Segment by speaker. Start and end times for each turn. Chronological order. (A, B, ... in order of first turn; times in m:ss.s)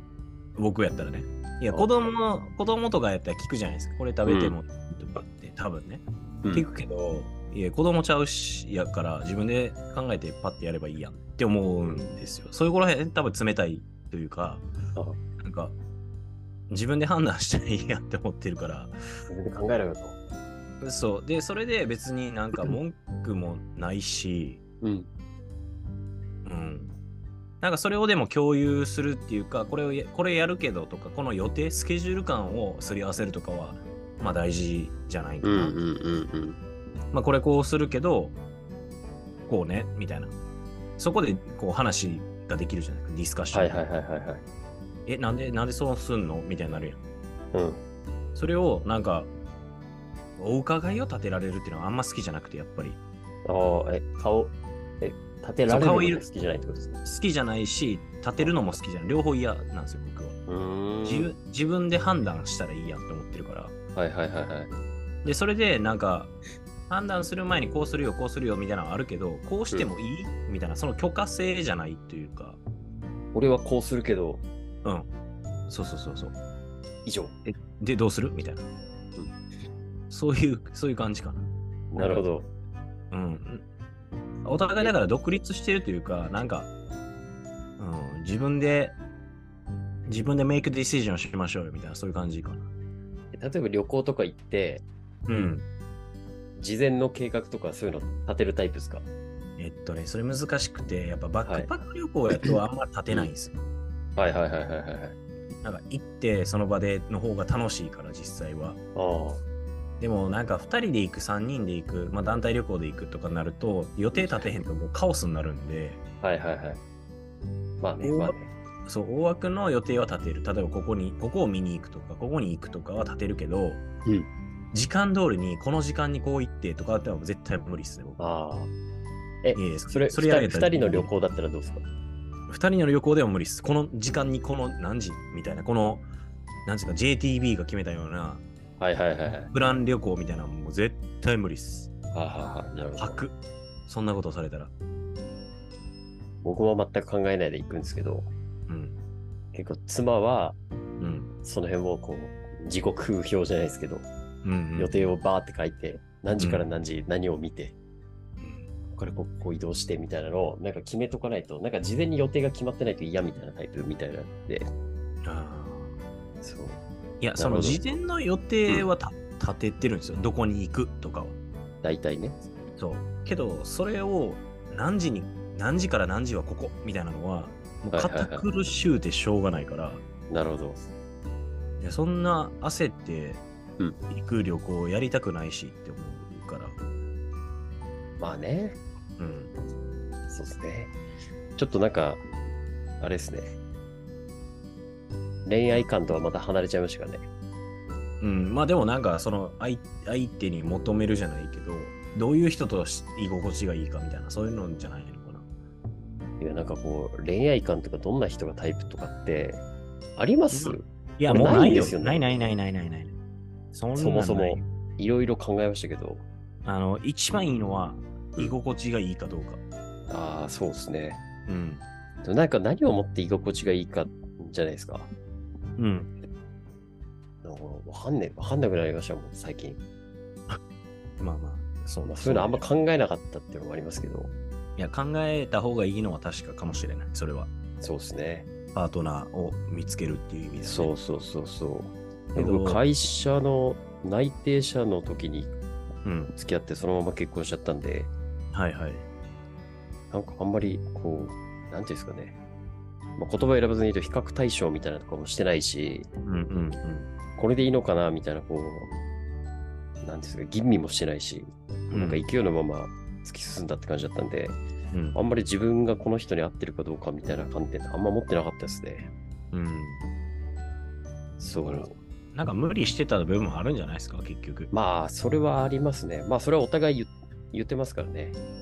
0:00.6-0:14.6 A
0:04.2-0:04.6 B
0:06.4-0:06.7 B
0:14.9-0:15.2 B
0:15.4-0:15.8 A
0:16.7-0:19.0 A
0:19.3-0:20.2 B
0:20.8-0:24.6 A
0:24.8-0:25.1 B
0:26.4-0:27.0 A
0:27.6-0:35.8 A
0:35.4-0:36.6 B
0:37.1-0:38.4 A
0:39.5-0:40.3 A
0:41.0-0:43.8 A
0:43.5-0:44.4 B
0:45.0-0:47.0 A
0:47.5-0:47.8 B
0:48.3-0:49.3 A
0:50.4-0:53.0 A
0:53.4-0:57.0 B
0:55.6-0:56.2 A
0:57.0-1:00.4 A
0:58.4-0:58.6 B
1:00.5-1:01.3 B
1:01.0-1:03.7 A
1:03.9-1:04.7 B
1:05.2-1:06.3 A
1:06.9-1:12.6 A
1:13.3-1:14.4 B
1:14.8-1:15.1 A
1:15.7-1:16.3 A
1:17.0-1:17.4 B
1:17.4-1:18.7 A
1:20.1-1:22.2 A
1:21.9-1:22.5 B
1:23.1-1:23.6 A
1:24.4-1:26.7 A
1:27.8-1:29.0 A
1:30.0-1:32.7 A
1:33.3-1:34.8 B
1:35.3-1:35.7 A
1:36.6-1:39.0 B
1:39.6-1:43.5 A
1:41.4-1:41.7 B
1:42.4-1:43.3 B
1:44.2-1:45.2 B
1:45.6-1:48.8 A
1:48.9-1:49.4 B
1:50.0-1:56.0 A
1:54.1-1:54.5 B
1:56.2-1:56.8 B
1:57.8-1:58.5 B
1:58.0-2:03.8 A
2:04.7-2:08.2 A
2:08.2-2:08.7 B
2:09.4-2:11.8 B
2:09.5-2:11.1 A
2:12.5-2:16.1 A
2:16.6-2:18.4 A
2:18.8-2:19.5 B
2:19.5-2:21.9 A
2:22.1-2:23.2 B
2:22.9-2:23.3 A
2:23.9-2:24.7 A
2:26.4-2:28.3 B
2:28.7-2:29.0 A
2:29.5-2:30.6 B
2:31.0-2:31.3 A
2:31.4-2:34.1 B
2:34.4-2:35.1 A
2:34.8-2:37.7 B
2:36.4-2:36.6 A
2:38.4-2:38.9 A
2:38.9-2:44.7 B
2:45.2-2:45.9 A
2:46.4-2:46.8 B
2:47.2-2:51.4 A
2:47.4-2:47.9 B
2:51.8-2:52.4 B
2:52.8-3:00.0 A
2:57.9-2:58.5 B
3:00.3-3:00.9 B
3:01.8-3:03.4 A
3:04.1-3:06.8 A
3:08.2-3:08.8 B
3:09.2-3:09.5 A
3:10.3-3:10.9 B
3:11.6-3:12.2 B
3:13.0-3:13.5 B
3:15.4-3:17.2 B
3:18.2-3:25.4 A
3:26.4-3:29.6 B
3:30.2-3:32.5 B
3:30.5-3:33.2 A
3:33.7-3:34.6 A
3:33.9-3:36.2 B
3:36.6-3:39.6 A
3:40.1-3:41.2 B
3:41.5-3:41.8 A
3:42.2-3:45.1 B
3:45.8-3:46.1 A
3:47.4-3:49.8 B
3:51.2-3:52.7 A
3:52.1-3:54.3 B
3:54.8-3:57.5 A
3:57.8-3:58.5 B
3:58.7-4:00.9 A
4:00.6-4:05.5 B
4:02.3-4:02.8 A
4:06.0-4:06.3 A
4:06.3-4:08.1 B
4:08.5-4:09.0 A
4:10.1-4:12.4 B
4:13.2-4:16.1 B
4:16.2-4:17.1 A
4:17.4-4:18.9 B
4:20.0-4:24.6 B
4:21.9-4:22.3 A
4:24.9-4:25.2 A
4:25.1-4:29.1 B
4:29.5-4:30.0 A
4:31.4-4:31.9 B
4:31.6-4:34.7 A
4:34.7-4:38.4 B